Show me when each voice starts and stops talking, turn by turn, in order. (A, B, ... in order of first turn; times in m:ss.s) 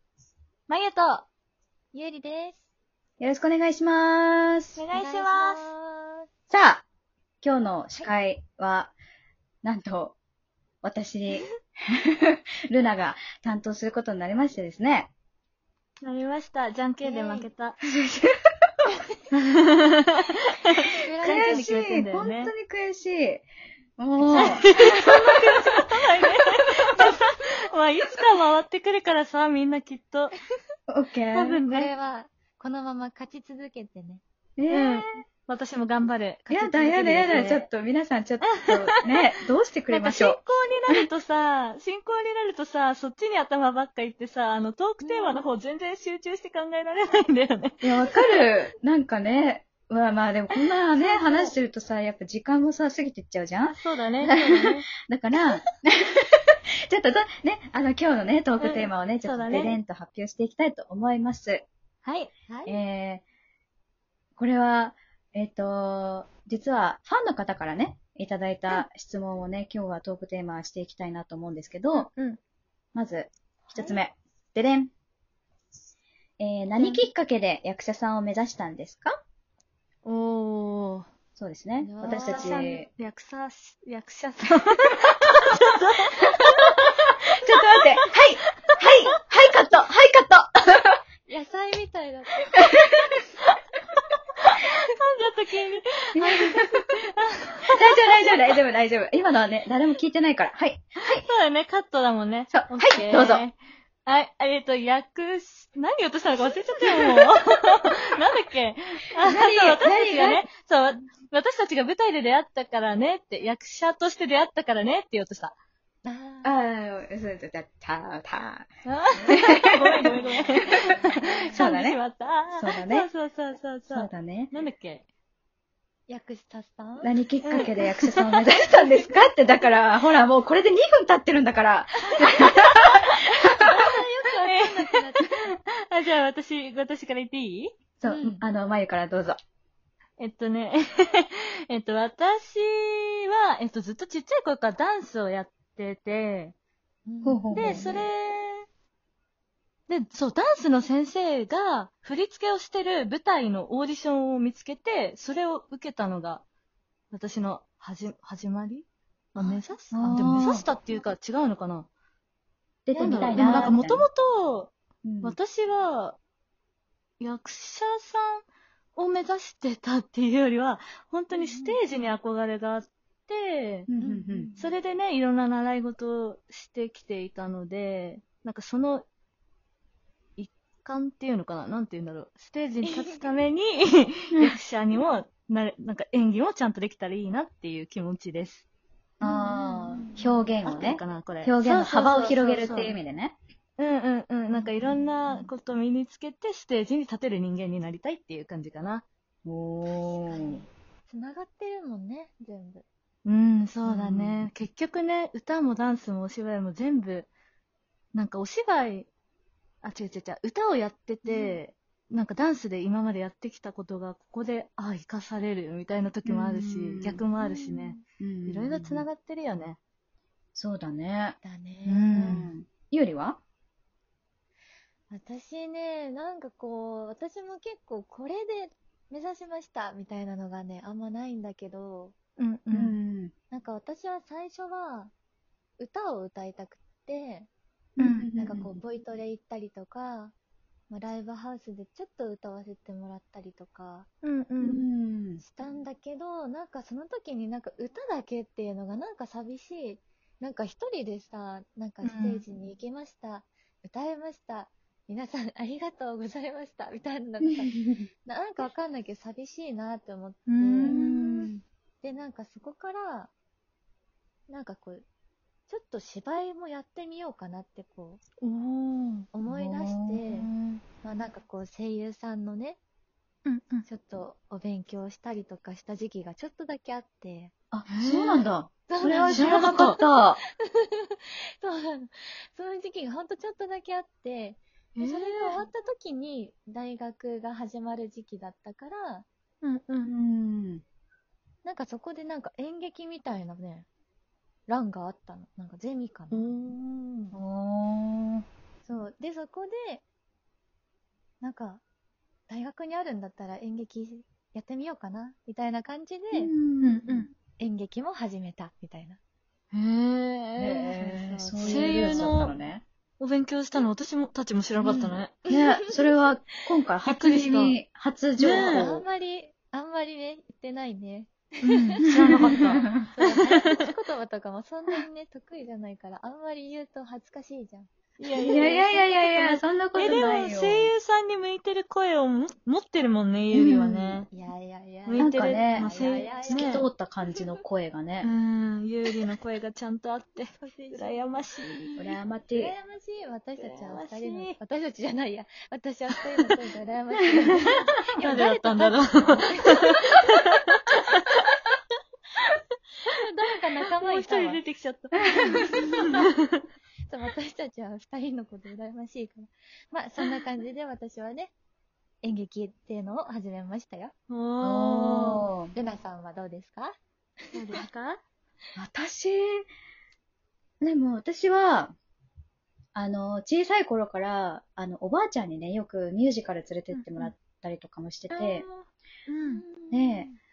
0:00.7-0:01.2 A
0:01.9-0:02.6 B
0:03.2-0:04.8 C
0:04.8-0:05.7 A
0:04.9-0:06.3 B
0:06.5-0:06.8 C
0:07.4-0:08.9 C
0:09.6-0:10.2 C
0:10.8-0:15.1 C
0:16.0-0:17.9 A
0:17.0-0:17.5 B
0:17.9-0:18.4 C
0:18.8-0:19.2 B
0:19.3-0:22.5 A
0:20.9-0:21.8 B
0:21.2-0:23.4 C
0:24.0-0:26.3 C
0:24.3-0:30.4 A
0:24.3-0:24.6 B
0:30.9-0:31.6 C
0:31.3-0:31.9 A
0:31.7-0:34.2 B
0:34.6-0:35.1 C
0:34.7-0:37.6 A
0:36.5-0:40.4 C
0:38.5-0:39.2 A
0:39.9-0:48.4 A
0:45.0-0:45.4 B
0:47.8-1:01.6 C
0:51.1-0:51.5 A
0:53.6-0:54.9 A
0:58.6-0:59.8 A
1:02.0-1:02.3 A
1:02.5-1:02.8 B
1:02.6-1:03.2 C
1:04.4-1:12.1 C
1:11.9-1:12.4 A
1:12.9-1:14.9 C
1:16.4-1:19.2 C
1:20.0-1:21.1 A
1:21.4-1:22.9 C
1:21.8-1:22.8 B
1:22.0-1:28.0 A
1:27.3-1:31.0 C
1:31.3-1:32.6 B
1:32.5-1:32.9 C
1:34.4-1:38.4 A
1:36.1-1:36.9 C
1:37.7-1:41.3 C
1:41.2-1:55.5 A
1:42.5-1:43.4 C
1:46.9-1:47.2 C
1:49.2-1:50.4 C
1:56.0-1:56.6 B
1:56.4-1:58.7 C
1:58.8-2:05.0 A
1:59.2-2:00.8 C
2:00.2-2:01.0 B
2:01.5-2:02.0 C
2:02.5-2:03.1 C
2:03.9-2:04.5 C
2:06.1-2:07.1 B
2:07.0-2:13.7 C
2:07.4-2:08.4 A
2:12.5-2:17.7 A
2:13.7-2:15.5 B
2:18.0-2:19.4 C
2:18.0-2:18.4 B
2:20.2-2:26.5 A
2:27.0-2:28.1 B
2:27.2-2:28.0 C
2:27.5-2:28.6 A
2:29.9-2:36.4 A
2:37.1-2:41.9 A
2:39.4-2:39.8 B
2:39.9-2:40.6 C
2:42.8-2:44.1 C
2:42.9-2:43.8 B
2:43.0-2:46.2 A
2:45.0-2:45.4 C
2:47.2-2:48.4 A
2:49.0-2:53.9 A
2:51.3-2:52.0 B
2:53.9-2:54.5 C
2:54.0-2:54.7 B
2:54.6-2:59.0 A
3:00.4-3:08.6 A
3:02.8-3:03.2 B
3:09.2-3:13.4 C
3:09.2-3:10.3 B
3:10.6-3:13.0 A
3:12.2-3:12.9 B
3:13.8-3:19.0 A
3:14.5-3:15.5 B
3:19.4-3:20.6 C
3:19.8-3:22.8 B
3:23.2-3:27.3 A
3:23.8-3:24.4 C
3:28.1-3:29.1 A
3:29.8-3:39.8 A
3:31.2-3:31.6 B
3:36.2-3:37.3 C
3:37.4-3:38.0 B
3:38.2-3:39.1 C
3:40.5-3:43.4 C
3:41.4-3:42.4 B
3:42.1-3:42.5 A
3:45.1-3:52.1 B
3:52.4-3:53.0 A
3:52.7-3:53.3 C
3:53.5-3:55.1 B
3:55.8-3:57.5 B
3:58.0-3:58.7 C
3:58.0-3:58.3 A
3:58.4-4:00.3 B
4:00.9-4:04.1 B
4:04.2-4:04.8 A
4:04.6-4:05.4 C
4:05.4-4:21.0 B
4:12.0-4:12.4 A
4:17.4-4:18.0 C
4:20.5-4:21.5 A
4:20.8-4:21.6 C
4:22.0-4:23.3 B
4:24.5-4:25.1 B
4:25.7-4:28.2 B
4:28.4-4:29.3 A
4:29.3-4:30.5 B
4:29.5-4:30.8 C
4:31.0-4:32.8 B
4:33.4-4:33.8 A
4:33.8-4:37.5 B
4:37.7-4:40.4 C
4:37.9-4:38.4 A
4:38.9-4:49.2 B
4:39.0-4:40.0 A
4:45.0-4:45.6 A
4:49.6-4:50.1 A
4:50.0-4:50.8 C
4:51.6-4:53.9 B
4:54.7-4:56.5 B
4:56.3-4:57.3 A
4:57.3-4:58.4 C
4:58.8-5:00.0 B
5:01.4-5:01.8 B
5:02.5-5:06.5 B
5:06.3-5:07.3 C
5:06.8-5:07.3 A
5:07.6-5:09.2 B
5:09.7-5:11.0 A
5:10.6-5:12.8 C
5:11.0-5:12.2 B
5:11.6-5:12.5 A
5:13.2-5:15.4 A
5:14.8-5:16.2 B
5:15.5-5:19.0 C
5:17.0-5:17.8 A
5:18.4-5:18.9 A
5:18.5-5:29.1 B
5:21.6-5:22.8 A
5:22.2-5:23.1 C
5:28.2-5:34.3 A
5:28.4-5:30.9 C
5:33.5-5:34.2 C
5:34.3-5:36.9 B
5:35.0-5:36.8 A
5:35.2-5:38.3 C
5:38.2-5:42.2 A
5:40.5-5:41.5 B
5:42.0-5:42.7 C
5:42.5-5:50.2 B
5:43.6-5:44.6 A
5:47.5-5:51.4 A
5:53.1-5:54.6 B
5:54.0-5:56.3 A
5:55.3-5:56.3 B
5:55.4-5:55.6 C
5:57.1-6:01.5 B
6:02.2-6:04.1 B
6:04.3-6:05.5 A
6:04.6-6:05.7 C
6:05.7-6:07.0 B
6:07.5-6:08.2 A
6:08.8-6:09.6 C
6:10.8-6:11.9 C
6:12.9-6:18.6 C
6:16.9-6:17.3 A
6:18.3-6:19.6 A
6:19.4-6:20.4 B
6:19.9-6:20.3 C